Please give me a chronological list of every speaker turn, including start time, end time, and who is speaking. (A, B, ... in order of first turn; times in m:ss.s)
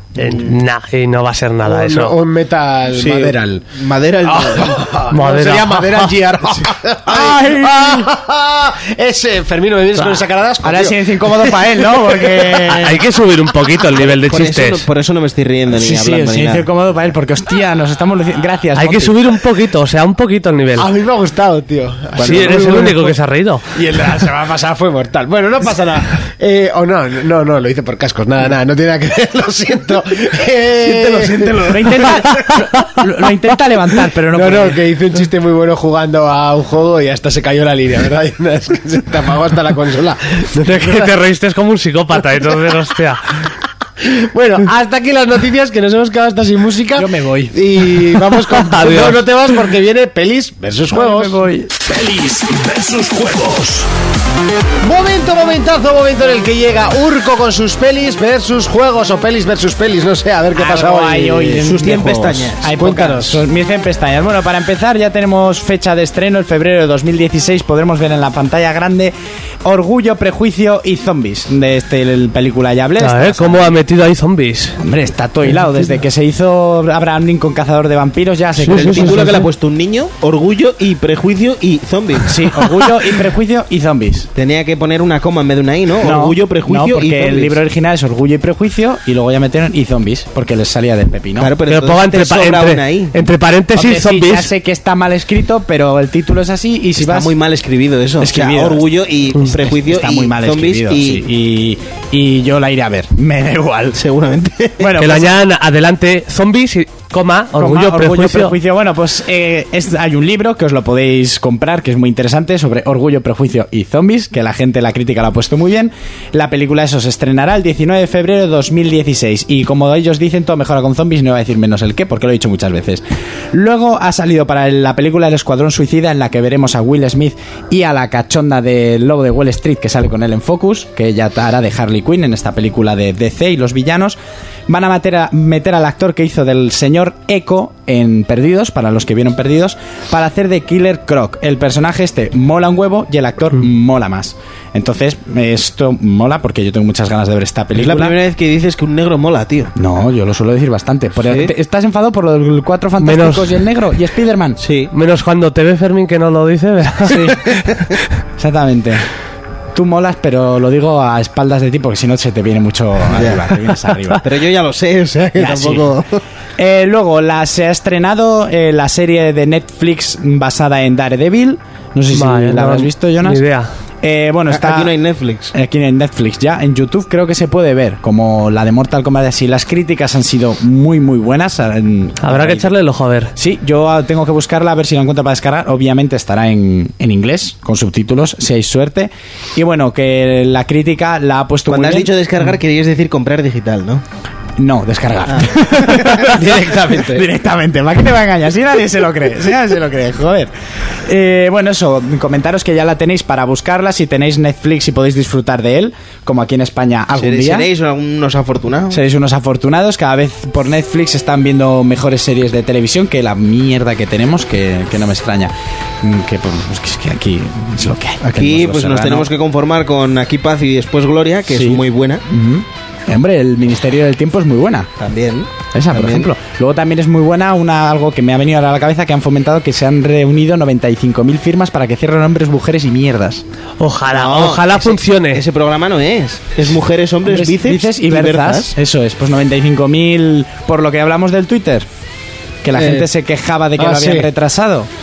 0:00.2-0:00.5 A
0:00.2-0:02.2 B
0:01.6-0:03.6 C
0:02.9-0:04.8 A
0:04.2-0:12.6 C
0:05.1-0:05.9 B
0:07.1-0:08.1 D
0:10.6-0:13.0 D
0:12.7-0:14.8 B
0:14.0-0:16.7 A
0:15.7-0:19.2 D
0:18.8-0:20.9 B
0:20.8-0:23.2 C
0:22.2-0:23.6 B
0:23.7-0:32.5 C
0:30.8-0:31.9 A
0:31.7-0:34.8 D
0:34.3-0:41.1 C
0:40.6-0:43.2 B
0:44.0-0:51.4 C
0:46.9-0:47.5 D
0:48.5-0:49.2 B
0:50.9-0:51.7 D
0:51.9-0:53.9 E
0:54.8-1:01.7 C
1:00.5-1:13.7 D
1:01.6-1:02.7 A
1:02.7-1:03.4 C
1:13.0-1:14.8 B
1:14.8-1:19.4 D
1:18.6-1:19.4 B
1:18.6-1:22.9 A
1:22.2-1:24.3 D
1:24.3-1:27.6 A
1:26.0-1:31.5 D
1:31.4-1:33.2 A
1:31.6-1:34.5 B
1:33.7-1:37.3 D
1:37.0-1:41.2 A
1:38.2-1:38.8 D
1:39.5-1:44.0 D
1:43.9-1:45.0 A
1:44.8-1:45.4 D
1:45.0-1:48.5 B
1:47.5-2:28.2 D
2:27.7-2:29.7 A
2:29.8-2:34.6 D
2:31.2-2:31.5 A
2:33.0-2:33.5 B
2:34.6-2:34.9 A
2:34.9-2:37.4 B
2:37.0-2:37.4 D
2:38.4-2:39.0 D
2:39.7-2:44.2 D
2:43.1-2:43.5 A
2:44.2-2:46.1 A
2:45.4-2:45.9 D
2:46.6-2:53.4 D
2:52.1-2:53.7 B
2:54.0-2:54.9 D
2:54.5-2:55.5 A
2:55.5-3:02.7 D
3:02.2-3:03.3 B
3:03.4-3:12.1 D
3:11.7-3:14.0 A
3:14.6-3:20.5 D
3:15.3-3:17.2 A
3:21.0-3:27.7 D
3:27.1-3:29.0 A
3:28.9-3:39.3 D
3:38.2-3:42.2 A
3:41.5-3:44.9 D
3:45.0-3:46.3 A
3:45.7-3:53.4 D
3:53.8-3:55.4 B
3:54.1-3:58.7 A
3:57.2-4:01.9 D
4:02.6-4:04.9 D
4:02.7-4:03.1 C
4:03.8-4:04.3 C